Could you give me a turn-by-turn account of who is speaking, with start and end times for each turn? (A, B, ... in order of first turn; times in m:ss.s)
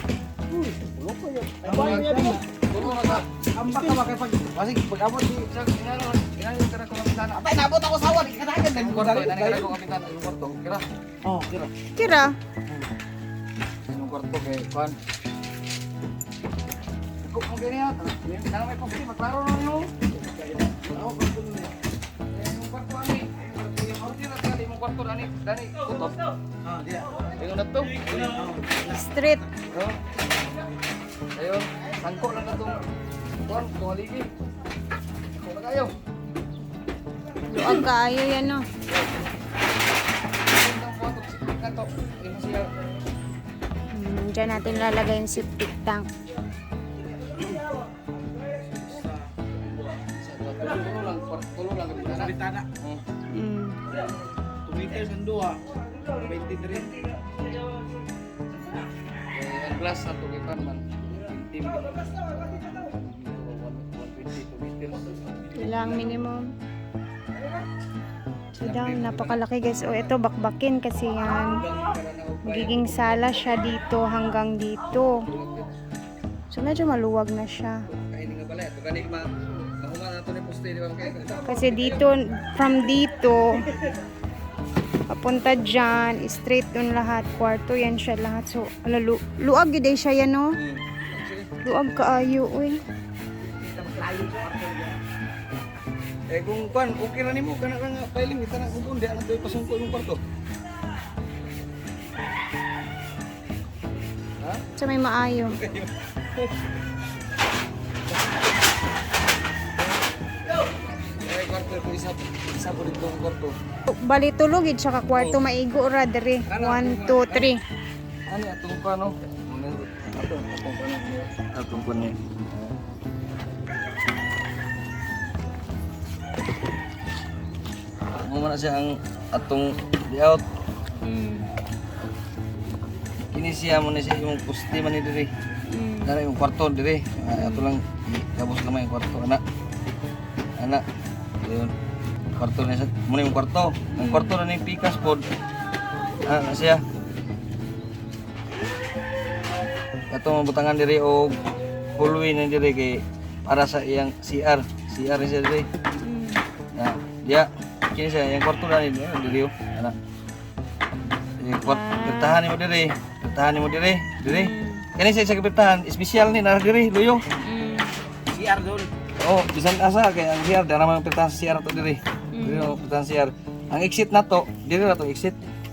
0:00.5-0:02.4 A
0:01.6-0:04.0 B
0:03.5-0:05.5 A
0:05.5-0:07.6 B
0:07.4-0:09.7 A
0:08.6-0:10.8 B
0:11.2-0:11.7 A
0:12.0-0:12.3 C
0:13.9-0:15.0 B
0:17.2-0:19.9 B
0:20.3-0:21.7 A
0:22.3-0:26.2 B
0:26.6-0:27.1 A
0:27.4-0:28.5 B
0:28.1-0:29.0 A
0:28.8-0:29.4 C
0:29.7-0:30.0 B
0:31.4-0:32.8 B
0:33.4-0:34.3 B
0:35.4-0:35.9 B
0:37.5-0:38.6 C
0:38.9-0:39.3 B
0:40.4-0:42.7 B
0:43.9-0:46.1 C
0:48.6-0:49.2 A
0:49.7-0:53.0 B
0:52.1-0:52.7 A
0:53.3-0:53.8 C
0:54.7-0:55.6 A
0:56.2-0:56.9 A
0:59.3-1:06.1 B
1:05.6-1:06.4 C
1:08.6-1:11.6 C
1:08.6-1:09.4 B
1:11.3-1:13.3 B
1:12.5-1:15.2 C
1:15.3-1:15.7 B
1:16.5-1:17.8 C
1:17.9-1:22.1 B
1:21.5-1:23.6 C
1:25.1-1:30.5 C
1:30.6-1:31.5 B
1:31.6-1:32.8 C
1:33.6-1:35.0 A
1:36.3-1:40.2 B
1:44.8-1:45.6 C
1:45.6-1:46.5 B
1:51.0-1:53.6 B
1:53.9-1:57.6 C
1:55.2-1:55.4 B
1:56.5-1:57.5 B
1:58.3-2:02.7 B
2:08.2-2:10.4 B
2:11.0-2:11.5 C
2:13.3-2:15.3 B
2:15.7-2:16.1 C
2:16.0-2:19.4 B
2:17.4-2:17.7 C
2:21.4-2:21.7 B
2:22.4-2:25.3 B
2:23.9-2:24.3 C
2:26.2-2:26.8 B
2:30.1-2:31.4 B
2:32.0-2:35.7 B
2:36.0-2:36.4 C
2:36.8-2:39.9 B
2:41.4-2:47.2 B
2:41.6-2:42.4 C
2:44.2-2:44.9 C
2:47.4-2:47.9 C
2:48.3-2:48.9 A
2:49.2-2:55.5 B
2:52.3-2:52.7 C